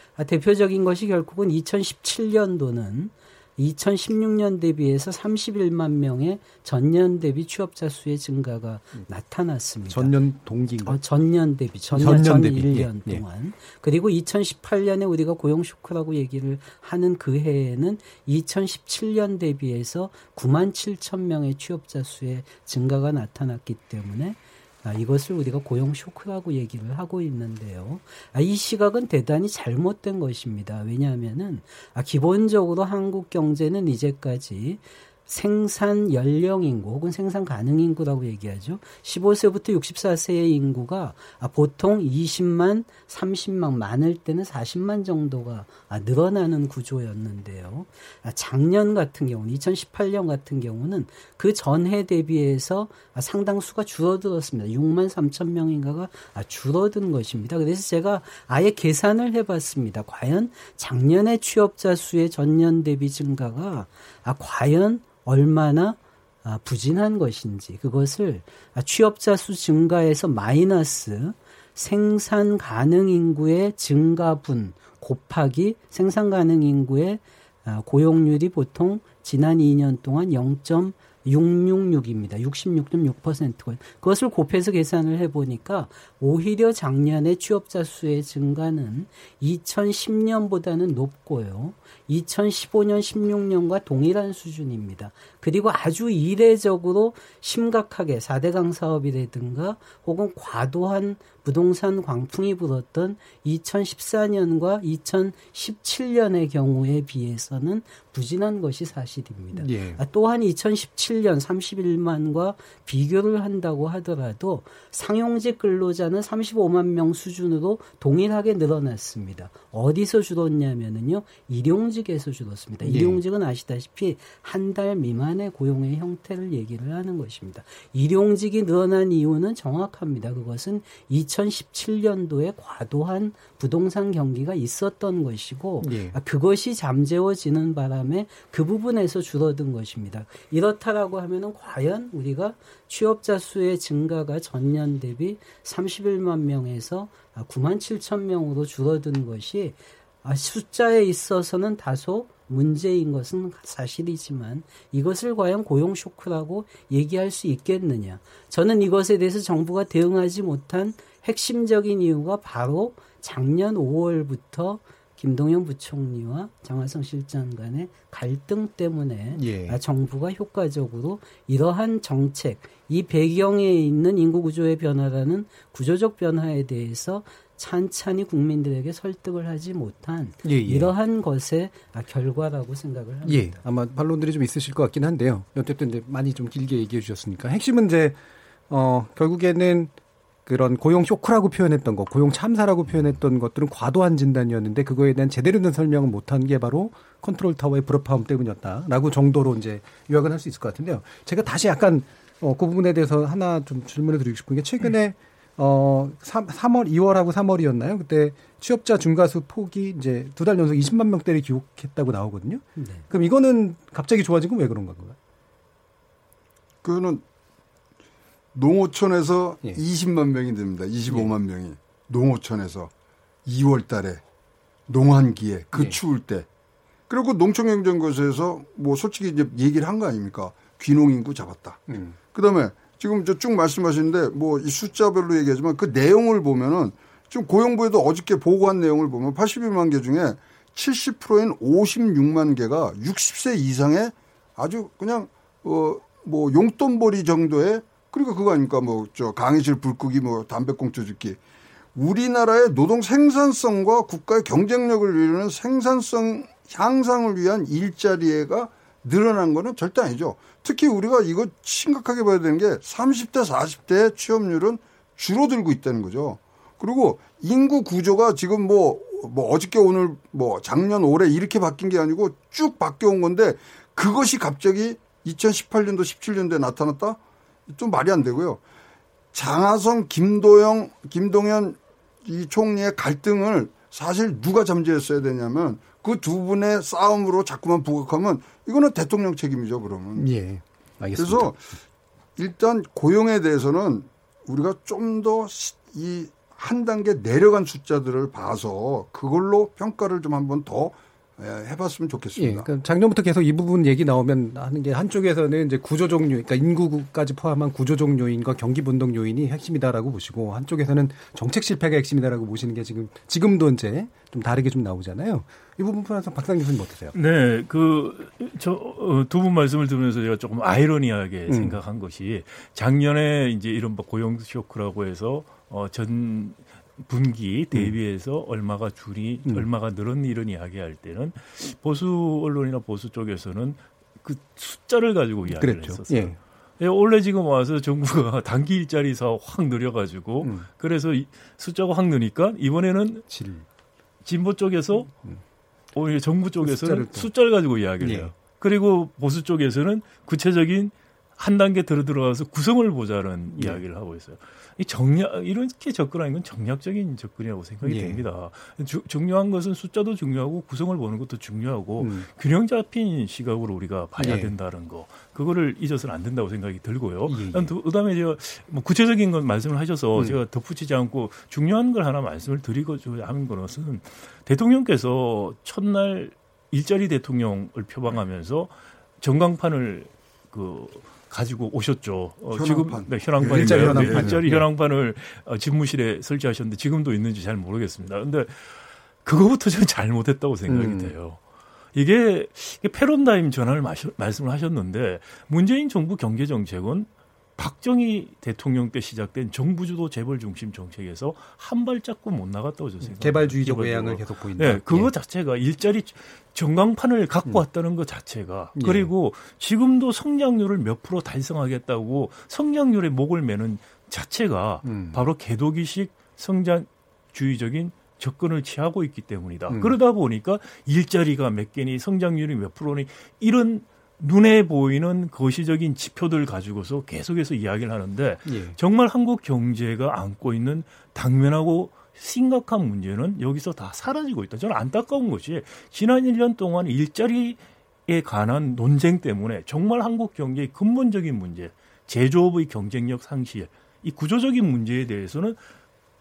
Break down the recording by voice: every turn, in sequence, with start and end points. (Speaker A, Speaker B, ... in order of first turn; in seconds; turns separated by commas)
Speaker A: 0.2-10.2, Speaker B: 9.9-11.0, Speaker A: 10.8-183.6, Speaker B: 11.9-13.2, Speaker B: 109.5-110.0, Speaker B: 122.8-123.2, Speaker B: 135.8-136.2, Speaker B: 169.3-169.8, Speaker B: 180.4-180.9, Speaker B: 183.2-189.9, Speaker B: 190.5-215.2, Speaker A: 212.8-213.0, Speaker C: 216.8-217.2, Speaker C: 218.5-222.9, Speaker C: 223.5-224.2, Speaker C: 224.9-226.5, Speaker B: 225.7-226.0, Speaker C: 227.1-251.4, Speaker B: 231.9-232.2, Speaker C: 251.9-278.6, Speaker C: 279.3-290.3, Speaker B: 290.2-291.5, Speaker C: 291.2-291.6, Speaker C: 292.4-302.7, Speaker B: 302.4-317.1, Speaker D: 317.1-343.3, Speaker B: 321.5-321.8, Speaker B: 335.5-336.4, Speaker B: 340.4-340.7, Speaker B: 343.3-343.6, Speaker D: 344.2-345.1, Speaker D: 345.9-391.4, Speaker B: 346.6-347.3, Speaker B: 348.0-348.3, Speaker B: 353.6-353.8, Speaker B: 357.8-358.2, Speaker B: 362.0-362.3, Speaker B: 364.2-364.5, Speaker B: 367.3-367.8, Speaker C: 382.5-384.4, Speaker B: 383.4-384.7, Speaker B: 390.7-391.1, Speaker D: 391.9-445.6, Speaker B: 403.0-405.1, Speaker B: 408.8-409.1, Speaker B: 414.8-415.2, Speaker B: 419.7-420.0, Speaker B: 428.5-428.8